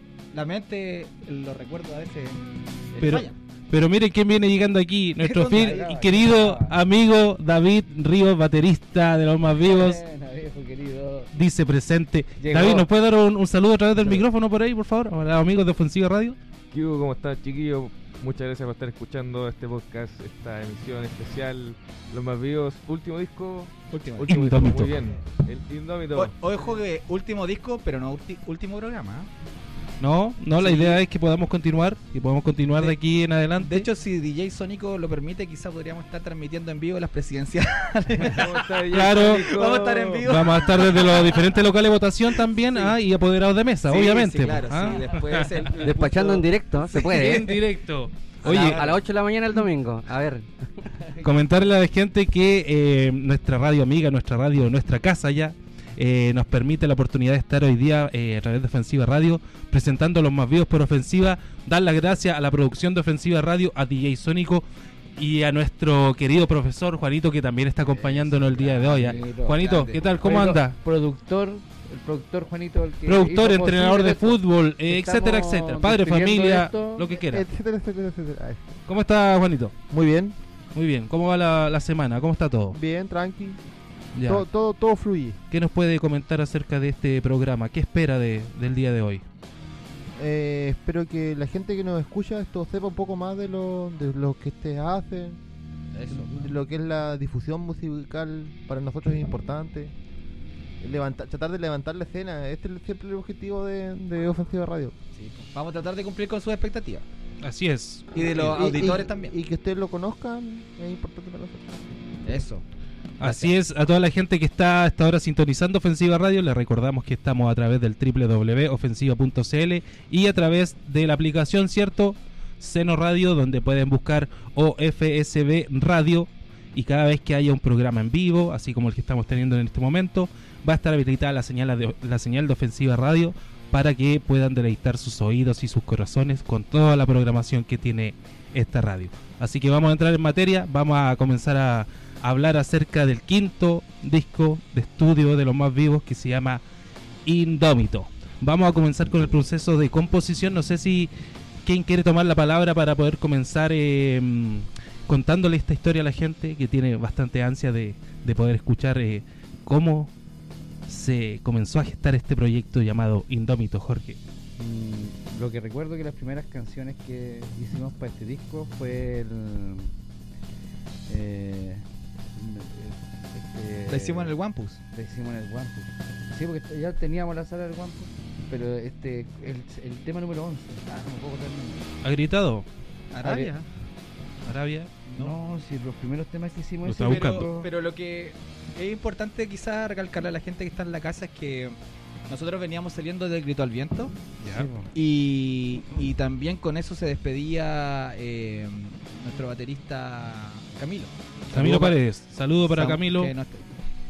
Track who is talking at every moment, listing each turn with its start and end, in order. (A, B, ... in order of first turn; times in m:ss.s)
0:00.3-0:02.4 A
0:02.9-0:03.4 A
0:03.0-0:10.0 B
0:05.2-0:05.8 A
0:05.4-0:06.8 C
0:09.5-0:11.3 C
0:11.3-0:16.4 B
0:12.4-0:12.9 C
0:14.0-0:14.2 C
0:16.7-0:26.3 D
0:23.9-0:24.3 A
0:24.3-0:25.0 B
0:26.1-0:29.3 A
0:30.0-0:33.9 B
0:30.6-0:31.0 A
0:33.6-0:41.5 A
0:38.2-0:40.9 D
0:38.9-0:39.5 B
0:40.3-0:45.8 B
0:42.5-0:42.9 A
0:43.9-0:47.3 A
0:45.8-0:47.6 E
0:47.0-0:48.8 B
0:48.4-0:50.5 E
0:48.5-0:49.0 A
0:51.2-1:04.6 B
1:05.2-1:10.8 B
1:07.9-1:17.1 C
1:09.6-1:10.1 A
1:13.0-1:17.5 B
1:17.1-1:18.8 F
1:18.9-1:19.7 B
1:19.9-1:20.4 F
1:20.7-1:22.8 B
1:22.7-1:23.6 F
1:24.1-1:24.5 B
1:24.2-1:25.4 F
1:25.5-1:29.2 B
1:30.2-1:35.4 F
1:36.0-1:36.5 A
1:36.1-1:39.9 F
1:40.8-1:45.0 F
1:45.1-1:47.0 A
1:47.4-1:48.1 B
1:48.1-1:49.3 A
1:48.2-1:51.9 F
1:52.2-1:52.6 A
1:53.2-1:53.5 A
1:53.2-2:26.6 B
2:27.2-2:31.1 B
2:31.6-2:40.1 B
2:40.9-2:44.2 B
2:44.6-2:49.9 C
2:51.1-2:54.3 C
2:53.9-2:54.8 A
2:54.9-3:01.8 C
3:02.0-3:02.6 B
3:03.1-3:03.6 A
3:03.2-3:03.5 C
3:04.4-3:04.9 B
3:05.1-3:05.3 A
3:05.1-3:07.7 C
3:06.8-3:07.5 B
3:07.0-3:11.8 A
3:12.3-3:22.0 A
3:14.4-3:14.9 C
3:21.5-3:23.3 B
3:22.6-3:23.7 A